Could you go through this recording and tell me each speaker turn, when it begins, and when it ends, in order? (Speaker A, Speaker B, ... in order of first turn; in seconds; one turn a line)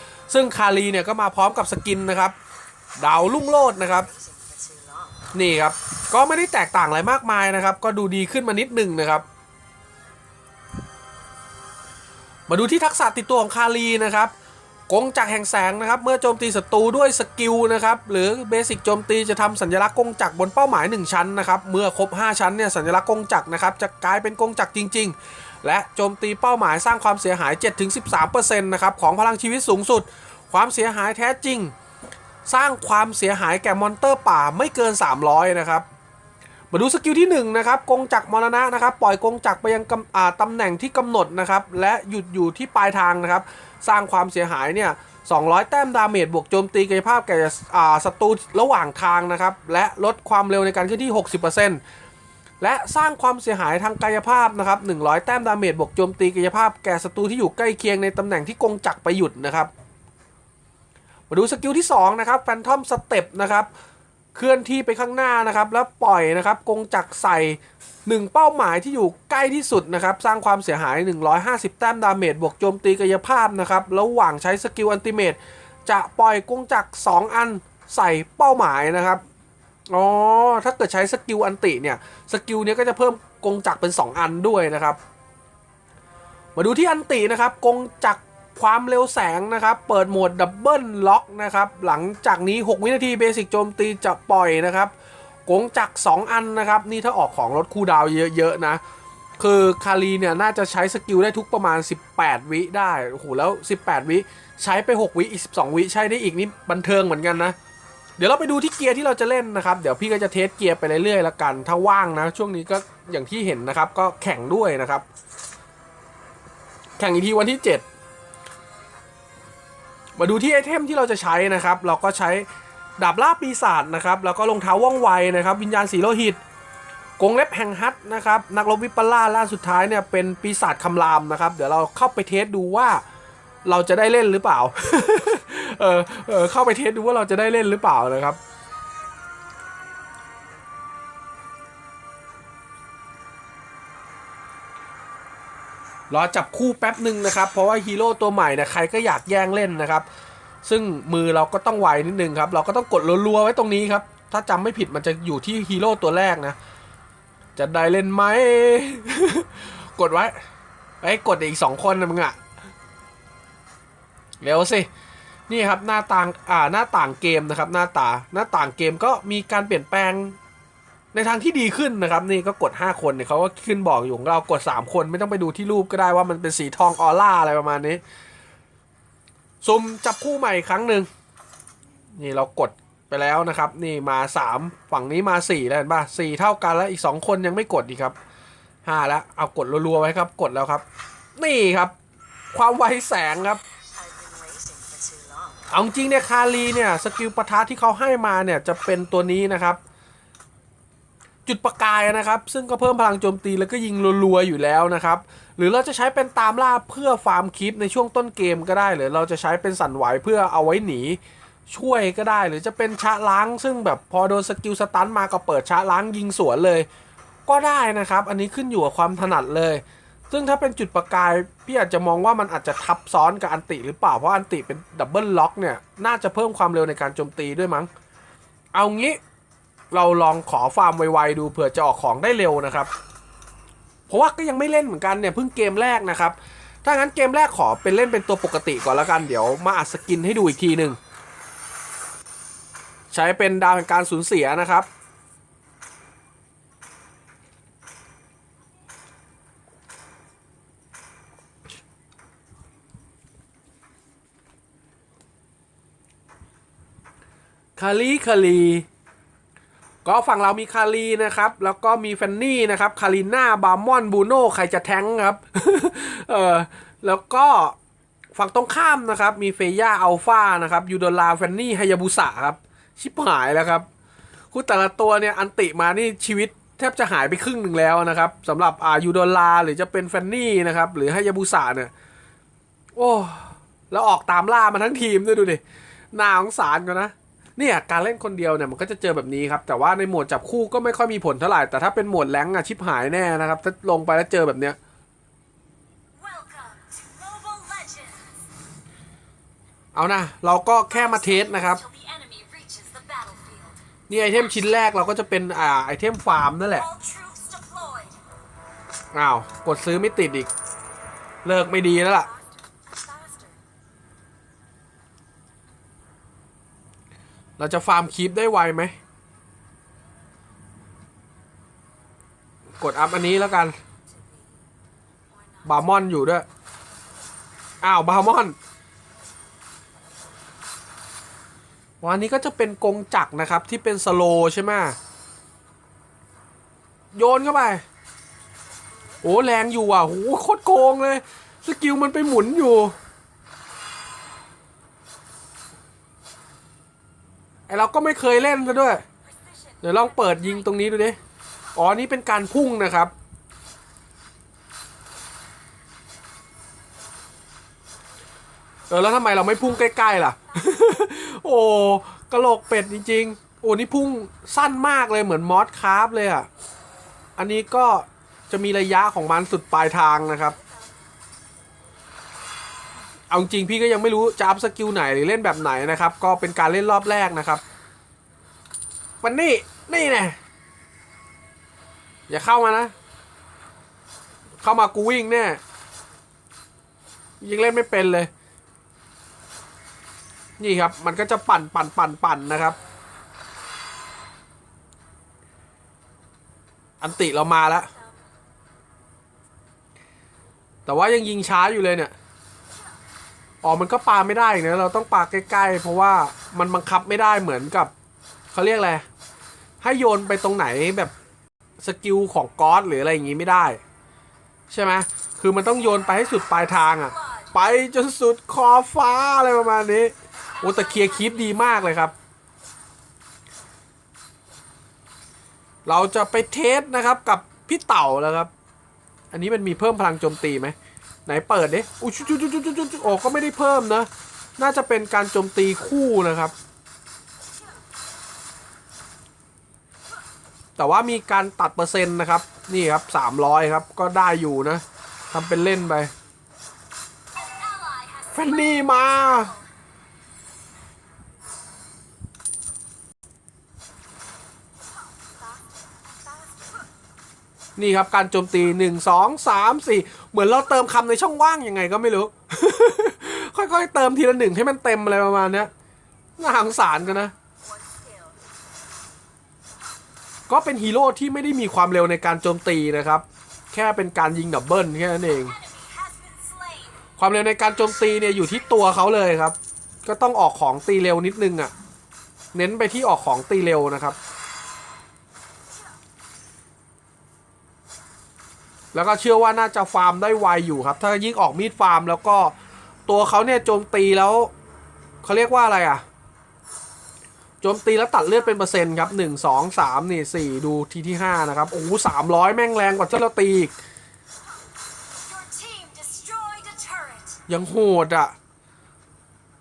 Speaker A: 0.3-2.4
Speaker A: 3.0-4.1
Speaker A: 5.3-9.2
Speaker A: 12.5-14.3
Speaker A: 14.9-31.7
Speaker A: 32.5-35.9
Speaker A: 36.7-51.8
Speaker A: 52.6-59.7
Speaker A: 61.3-63.7
Speaker A: 64.3-79.2
Speaker A: 79.9-85.0
Speaker A: 86.6-94.9
Speaker A: 95.5-98.8
Speaker A: 99.4-107.6
Speaker A: 108.2-115.0
Speaker A: 117.0-117.9
Speaker A: 120.2-122.5
Speaker A: 123.0-126.4
Speaker A: 127.2-133.0
Speaker A: 133.7-138.4
Speaker A: 146.1-150.1
Speaker A: 150.6-156.6
Speaker A: 157.6-160.3
Speaker A: 161.0-162.4
Speaker A: 164.4-164.9
Speaker A: 165.5-170.4
Speaker A: 171.1-178.0
Speaker A: 179.6-181.1
Speaker A: 182.2-188.2
Speaker A: 188.8-190.8
Speaker A: 191.4-191.9
Speaker A: 192.5-193.6
Speaker B: 194.3-195.3
Speaker A: 195.7-199.8
Speaker A: 201.5-216.9
Speaker A: 217.5-227.9
Speaker A: 228.7-229.2
Speaker A: 229.9-232.9
Speaker A: 234.1-241.0
Speaker A: 243.1-244.9
Speaker A: 257.8-258.9
Speaker A: 260.1-267.8
Speaker A: 268.4-273.9
Speaker A: 274.5-281.9
Speaker A: 283.0-285.6
Speaker A: 286.1-294.8
Speaker B: 296.1-298.5
Speaker A: 299.9-301.8
Speaker B: 300.9-303.8
Speaker A: 304.1-306.9
Speaker B: 306.7-308.2
Speaker A: 309.1-310.5
Speaker A: 311.4-312.3
Speaker B: 311.8-313.6
Speaker A: 317.6-319.0
Speaker A: 322.8-323.8
Speaker B: 323.9-324.6
Speaker B: 325.3-326.1
Speaker A: 325.6-326.5
Speaker A: 327.8-328.6
Speaker A: 332.0-335.0
Speaker A: 337.1-337.8
Speaker A: 339.2-343.0
Speaker A: 347.7-349.1
Speaker B: 349.2-350.7
Speaker A: 349.8-351.2
Speaker A: 351.8-353.1
Speaker A: 358.9-366.5
Speaker B: 359.6-361.1
Speaker A: 367.4-370.6
Speaker B: 370.5-371.1
Speaker A: 373.3-377.6
Speaker A: 379.2-380.4
Speaker A: 382.3-382.9
Speaker A: 384.6-385.6
Speaker A: 387.4-388.3
Speaker A: 390.6-392.8
Speaker A: 397.0-397.9
Speaker A: 400.9-402.1
Speaker A: 403.6-407.9
Speaker A: 408.5-409.1
Speaker A: 409.8-411.1
Speaker A: 411.8-413.8
Speaker A: 414.7-422.1
Speaker B: 417.0-417.5
Speaker B: 420.6-421.5
Speaker A: 425.9-428.5
Speaker A: 429.3-430.8
Speaker A: 431.3-436.6
Speaker A: 440.8-446.1
Speaker B: 447.3-449.7
Speaker A: 448.3-449.5
Speaker B: 455.1-456.9
Speaker A: 457.8-465.7
Speaker A: 466.4-467.3
Speaker B: 467.6-468.4
Speaker A: 470.5-475.6
Speaker B: 475.2-477.1
Speaker A: 477.2-481.7
Speaker B: 478.0-478.6
Speaker A: 482.5-484.2
Speaker A: 488.9-492.6
Speaker A: 493.1-494.5
Speaker A: 495.2-496.1
Speaker A: 497.6-503.7
Speaker B: 505.1-507.4
Speaker A: 507.5-508.3